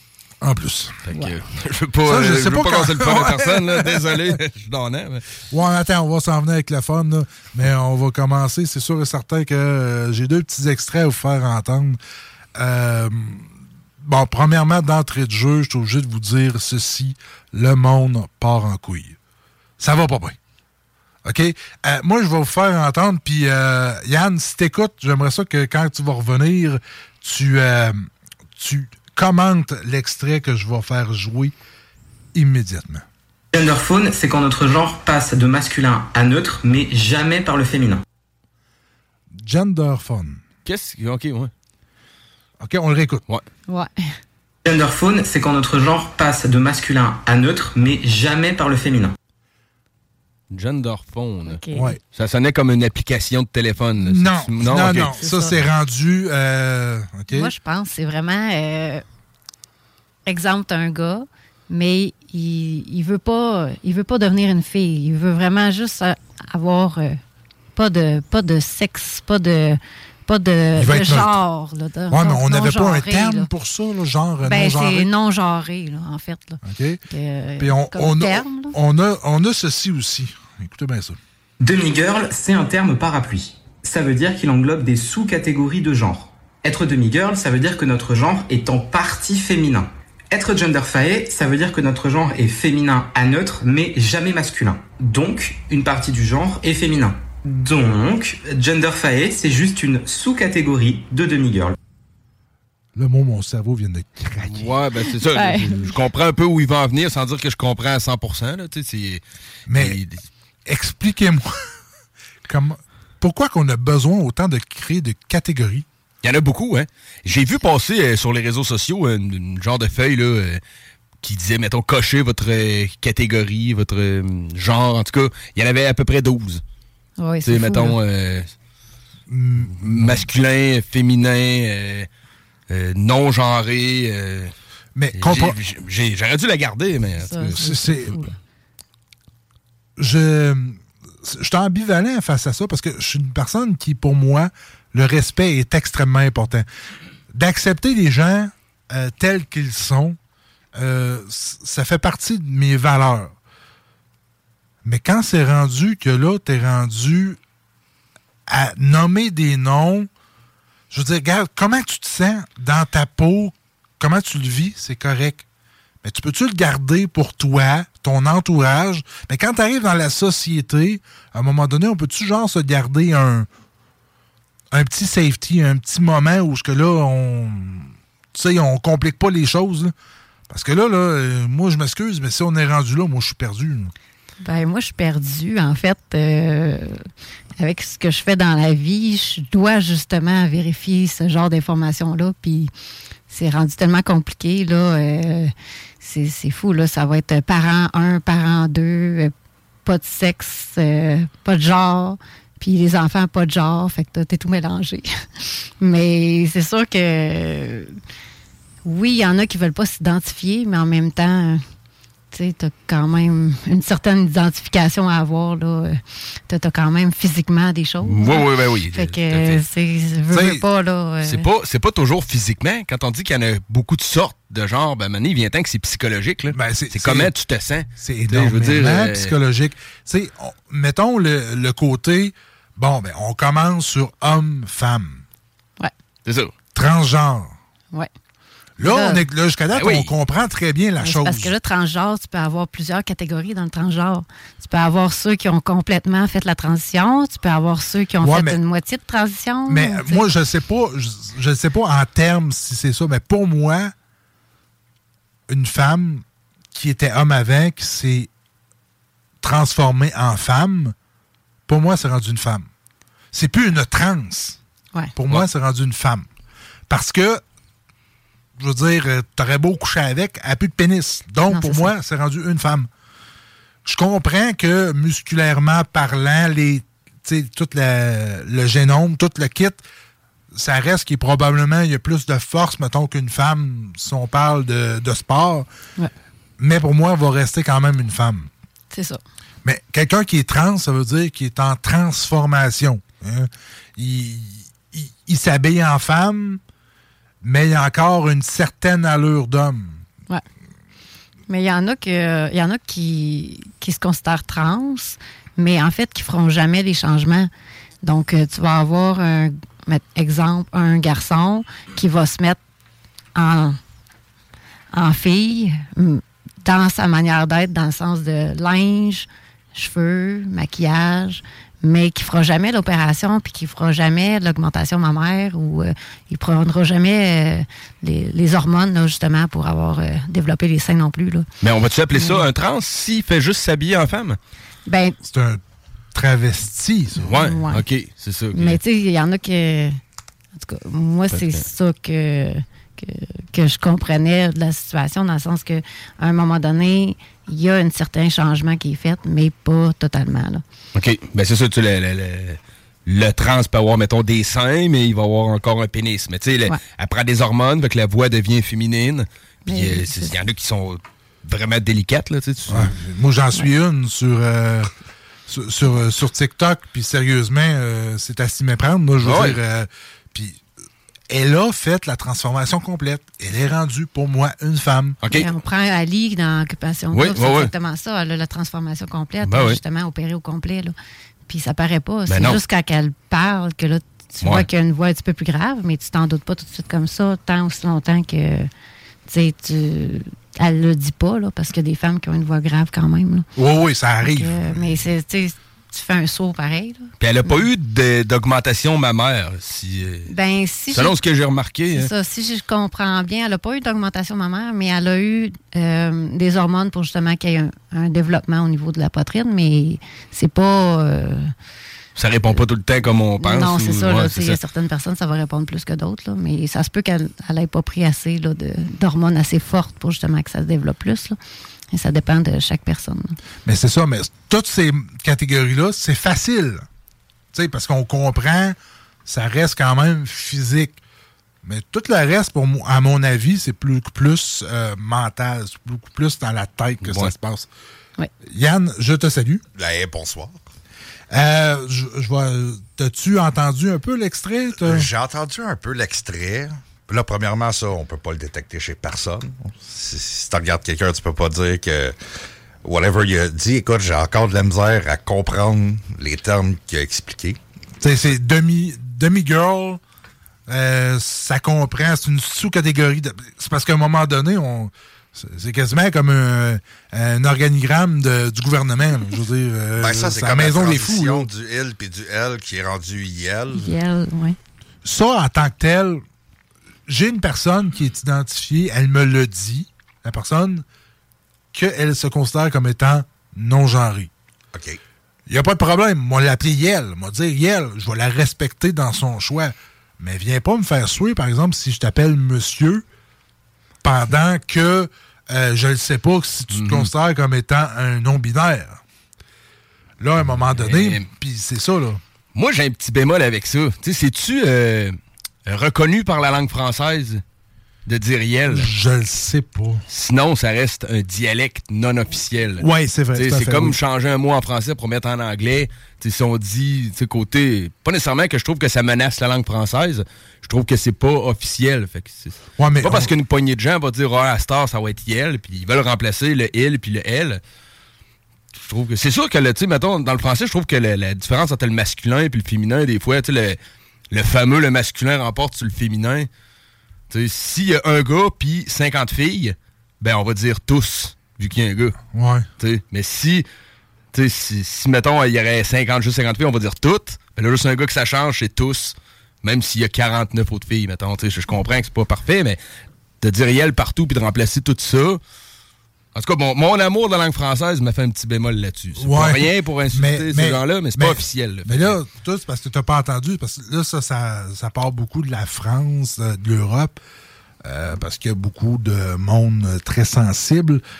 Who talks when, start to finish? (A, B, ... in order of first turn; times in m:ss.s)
0:00.4-0:00.9 A
0:01.0-0:05.2 B
0:02.1-0:04.4 A
0:05.5-0:12.0 A
0:12.6-0:13.5 A
0:14.0-0:19.2 A
0:19.8-0:20.4 A
0:21.2-0:31.5 A
0:32.3-0:33.0 A
0:33.5-0:38.0 C
0:39.3-0:40.4 A
0:40.6-0:41.5 B
0:42.6-0:43.2 A
0:44.6-0:49.1 C
0:50.5-0:51.6 B
0:51.4-0:51.9 D
0:51.7-0:52.0 A
0:52.1-0:55.1 B
0:54.0-0:57.5 A
0:55.2-0:55.6 D
0:57.3-0:59.0 D
1:00.2-1:07.2 D
1:07.7-1:13.5 D
1:10.8-1:11.4 A
1:12.1-1:15.1 A
1:14.4-1:18.8 D
1:16.6-1:17.0 A
1:17.6-1:21.2 A
1:21.6-1:41.7 C
1:42.9-1:44.7 A
1:44.5-1:50.2 B
1:45.3-1:45.9 D
1:49.7-1:50.0 A
1:50.6-1:51.5 A
1:52.5-1:55.8 A
1:56.2-2:00.6 B
2:01.2-2:06.6 B
2:07.2-2:08.0 D
2:07.4-2:08.5 B
2:09.3-2:10.3 A
2:09.7-2:12.1 B
2:12.7-2:14.5 B
2:15.0-2:15.6 A
2:15.2-2:17.6 B
2:17.2-2:18.3 D
2:17.6-2:18.2 A
2:20.0-2:26.6 A
2:27.3-2:30.2 A
2:30.7-2:33.3 A
2:34.8-2:37.4 A
2:38.5-2:40.1 A
2:40.9-2:45.4 A
2:46.0-2:53.5 A
2:54.7-2:59.9 A
3:00.5-3:03.9 A
3:04.4-3:07.0 D
3:07.6-3:12.7 D
3:13.3-3:19.3 D
3:19.8-3:25.1 D
3:25.8-3:28.0 D
3:28.8-3:31.6 D
3:32.3-3:41.4 D
3:38.0-3:39.6 B
3:40.3-3:40.6 A
3:41.2-3:49.3 B
3:46.5-3:47.3 A
3:48.0-3:55.2 A
3:56.2-3:56.5 B
3:56.7-3:57.5 A
3:58.8-4:01.5 A
3:58.8-3:59.2 D
3:59.7-4:00.1 B
4:01.0-4:10.2 D
4:08.2-4:08.6 A
4:09.7-4:13.9 A
4:15.5-4:18.3 A
4:19.4-4:20.9 A
4:21.7-4:22.7 A
4:23.3-4:24.6 A
4:25.2-4:26.3 A
4:26.9-4:27.4 A
4:28.6-4:32.9 A
4:31.5-4:31.9 D
4:33.8-4:39.8 A
4:40.5-4:45.7 A
4:46.6-4:48.5 A
4:48.9-4:49.2 D
4:49.6-4:56.6 A
4:57.4-5:00.0 A
5:01.5-5:07.5 D
5:08.0-5:12.6 D
5:13.3-5:13.8 D
5:14.9-5:31.4 D
5:31.6-5:34.4 B
5:32.2-5:32.4 D
5:34.9-5:35.2 D
5:35.2-5:35.6 A
5:36.1-5:37.3 A
5:37.2-5:38.8 B
5:37.3-5:37.8 D
5:38.5-5:40.0 D
5:40.6-5:50.6 D
5:41.3-5:41.6 B
5:50.9-6:02.9 B
5:59.7-6:00.4 D
6:02.7-6:04.9 A
6:05.5-6:10.6 A
6:09.2-6:09.6 B
6:11.3-6:15.2 A
6:15.2-6:15.5 B
6:15.3-6:20.9 D
6:17.1-6:17.7 B
6:19.5-6:19.8 B
6:21.5-6:28.7 D
6:22.3-6:22.6 B
6:29.3-6:33.5 D
6:33.6-6:34.7 A
6:34.2-6:37.7 D
6:37.2-6:40.3 B
6:40.3-6:41.2 D
6:40.9-6:42.1 B
6:41.9-6:51.5 D
6:52.2-6:54.6 B
6:53.4-7:01.4 D
7:01.9-7:03.4 D
7:03.6-7:06.8 A
7:07.5-7:08.7 A
7:09.2-7:11.0 A
7:11.6-7:17.7 A
7:17.0-7:17.3 B
7:18.4-7:19.6 A
7:19.7-7:20.6 E
7:21.3-7:25.1 A
7:24.8-7:32.2 E
7:32.8-7:37.6 E
7:38.0-7:40.0 A
7:40.7-7:51.5 A
7:50.0-7:53.9 E
7:53.7-7:54.6 D
7:55.0-7:56.2 A
7:57.1-8:00.8 A
8:01.7-8:04.3 A
8:04.7-8:05.0 E
8:05.5-8:13.0 A
8:14.0-8:19.0 A
8:16.7-8:17.1 B
8:20.2-8:22.2 A
8:20.6-8:21.2 B
8:22.5-8:27.4 B
8:28.1-8:28.9 B
8:28.7-8:30.0 A
8:30.1-8:47.6 B
8:32.8-8:34.0 A
8:42.8-8:43.3 A
8:48.8-8:53.8 B
8:54.3-8:56.5 B
8:57.3-9:02.2 B
9:02.3-9:02.6 A
9:02.8-9:03.6 B
9:04.3-9:12.8 B
9:13.4-9:15.4 B
9:16.3-9:22.2 B
9:19.2-9:27.2 A
9:27.8-9:31.0 A